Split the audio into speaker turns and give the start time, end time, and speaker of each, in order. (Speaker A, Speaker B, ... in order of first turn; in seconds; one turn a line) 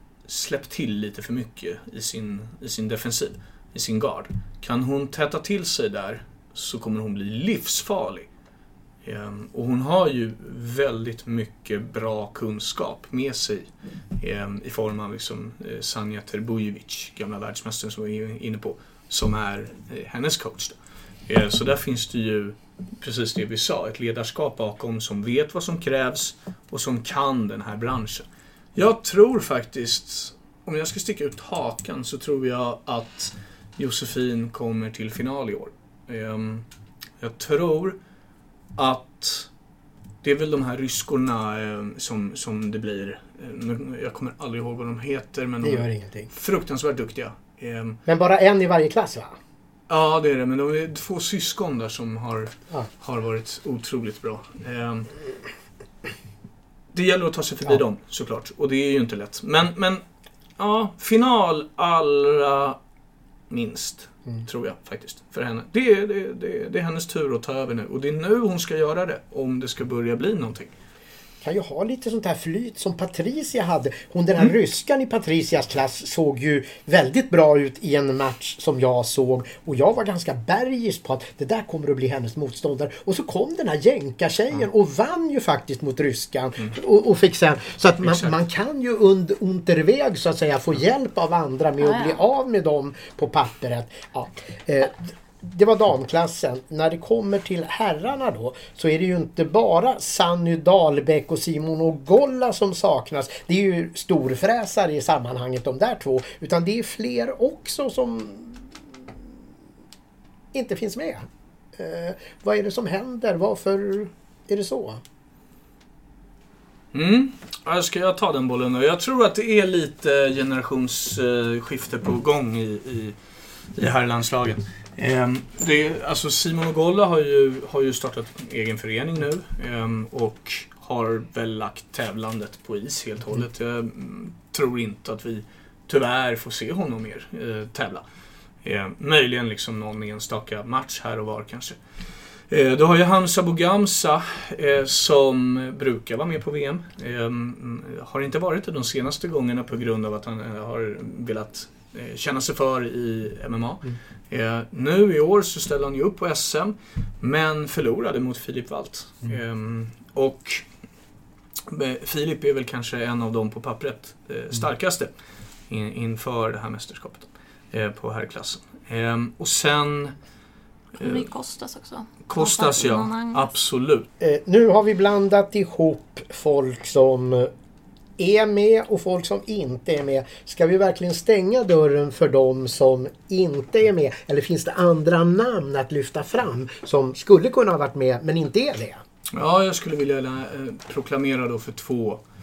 Speaker A: 0.2-8.3
Speaker A: 9.0-36.6
Speaker A: 37.2-38.0
Speaker A: 38.8-39.5
Speaker A: 40.2-48.0
Speaker B: 45.6-46.3
Speaker B: 48.1-49.4
Speaker A: 49.9-55.1
Speaker A: 56.9-60.0
Speaker A: 60.6-62.8
Speaker A: 63.5-70.7
Speaker B: 71.4-108.8
Speaker A: 88.0-88.3
Speaker C: 91.8-92.2
Speaker B: 110.5-115.0
Speaker A: 116.9-123.2
Speaker A: 123.7-138.0
Speaker A: 138.6-141.8
Speaker A: 142.5-160.7
Speaker A: 161.7-165.1
Speaker A: 165.7-170.1
Speaker A: 171.0-171.2
Speaker C: 171.0-173.5
Speaker A: 172.3-174.1
Speaker B: 174.2-177.5
Speaker B: 178.2-189.0
Speaker A: 189.3-192.2